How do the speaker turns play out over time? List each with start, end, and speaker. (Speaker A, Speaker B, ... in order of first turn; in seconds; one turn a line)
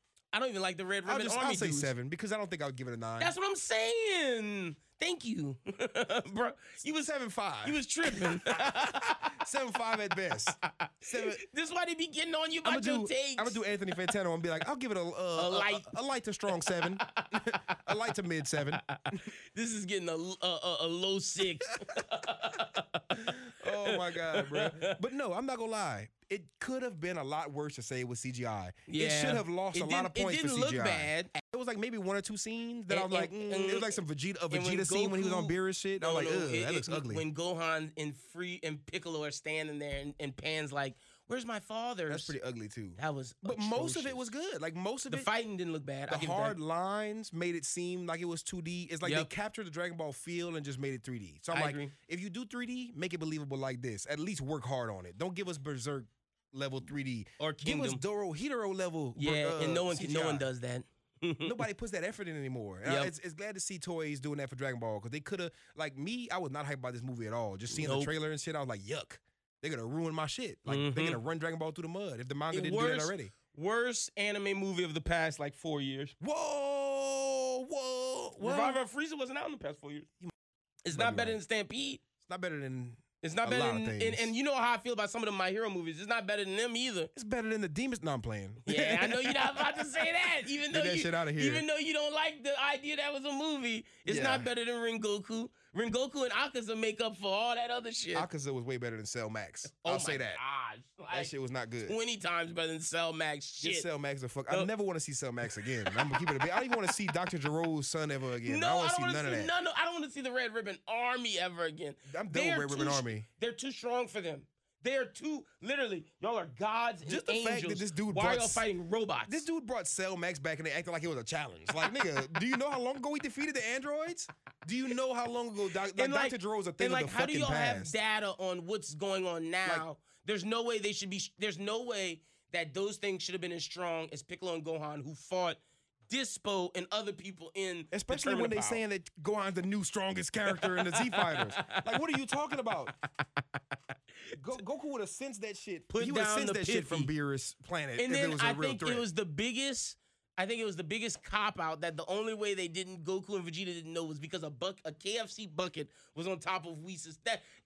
Speaker A: 0.3-1.9
Speaker B: 1.1-3.3
Speaker A: 3.2-7.1
Speaker B: 6.8-11.4
Speaker A: 7.6-9.3
Speaker A: 10.6-13.6
Speaker B: 12.6-19.2
Speaker A: 15.3-15.9
Speaker A: 16.6-17.8
Speaker A: 18.8-25.0
Speaker B: 23.1-37.2
Speaker A: 28.9-31.4
Speaker A: 32.9-34.0
Speaker A: 34.5-42.3
Speaker B: 42.1-45.3
Speaker A: 43.0-44.3
Speaker A: 45.1-46.6
Speaker B: 46.1-60.5
Speaker A: 49.0-49.3
Speaker A: 51.5-51.9
Speaker A: 57.4-58.0
Speaker A: 59.2-61.6
Speaker B: 61.4-73.3
Speaker A: 62.8-63.1
Speaker A: 67.7-68.1
Speaker A: 70.7-71.2
Speaker A: 72.5-76.1
Speaker B: 76.2-78.8
Speaker A: 78.4-80.1
Speaker A: 80.8-82.0
Speaker B: 80.9-81.4
Speaker B: 82.2-84.3
Speaker A: 83.2-87.1
Speaker B: 87.1-91.6
Speaker A: 88.7-98.3
Speaker B: 94.0-94.5
Speaker B: 98.1-100.4
Speaker A: 99.8-101.3
Speaker B: 101.1-102.0
Speaker A: 101.9-103.9
Speaker B: 103.6-109.5
Speaker A: 105.7-106.9
Speaker A: 108.4-119.4
Speaker B: 112.1-113.2
Speaker B: 117.0-118.6
Speaker B: 119.3-127.9
Speaker A: 125.9-138.8
Speaker B: 137.9-142.9
Speaker A: 140.5-142.0
Speaker B: 144.3-149.1
Speaker A: 145.9-147.1
Speaker A: 148.0-157.4